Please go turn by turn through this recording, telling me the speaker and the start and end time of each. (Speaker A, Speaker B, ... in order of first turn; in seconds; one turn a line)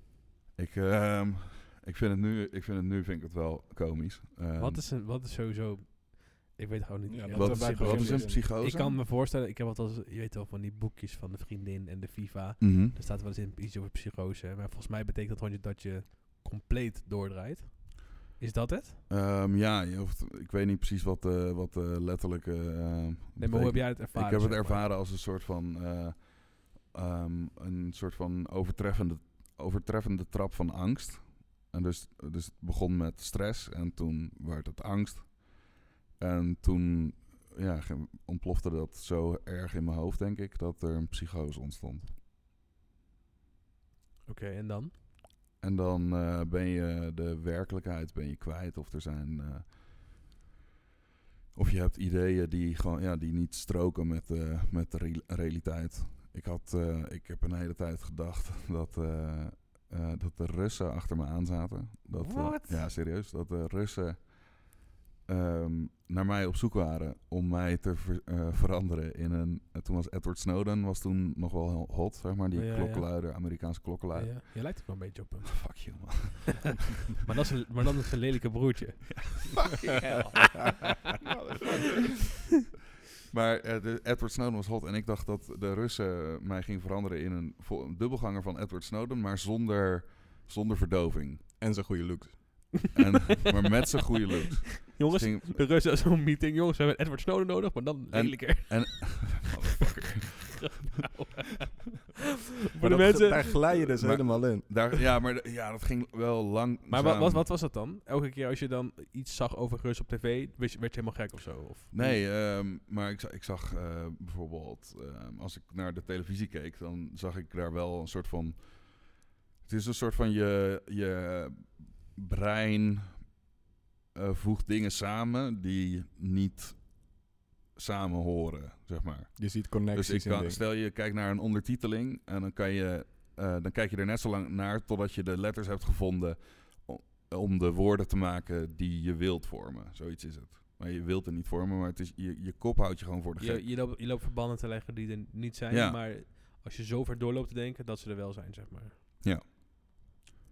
Speaker A: 0.6-4.8
Speaker B: 4.6-19.0
Speaker C: 7.1-8.4
Speaker A: 7.3-9.0
Speaker A: 12.6-12.9
Speaker A: 19.1-42.1
Speaker B: 23.4-24.9
Speaker B: 44.2-44.9
Speaker A: 45.6-49.8
Speaker A: 51.5-64.7
Speaker B: 62.1-62.9
Speaker A: 65.2-74.8
Speaker B: 72.5-73.5
Speaker B: 74.1-76.3
Speaker A: 75.5-76.8
Speaker B: 77.1-80.9
Speaker A: 79.1-80.6
Speaker A: 81.4-82.0
Speaker A: 83.3-91.4
Speaker C: 91.6-92.8
Speaker A: 92.9-95.7
Speaker B: 94.8-99.5
Speaker A: 98.1-100.8
Speaker B: 100.6-102.0
Speaker B: 102.7-103.8
Speaker C: 102.8-105.0
Speaker A: 104.0-107.5
Speaker B: 106.9-112.2
Speaker A: 111.9-123.4
Speaker A: 124.1-127.2
Speaker A: 127.7-143.7
Speaker C: 129.3-130.6
Speaker B: 143.4-148.9
Speaker A: 145.7-146.0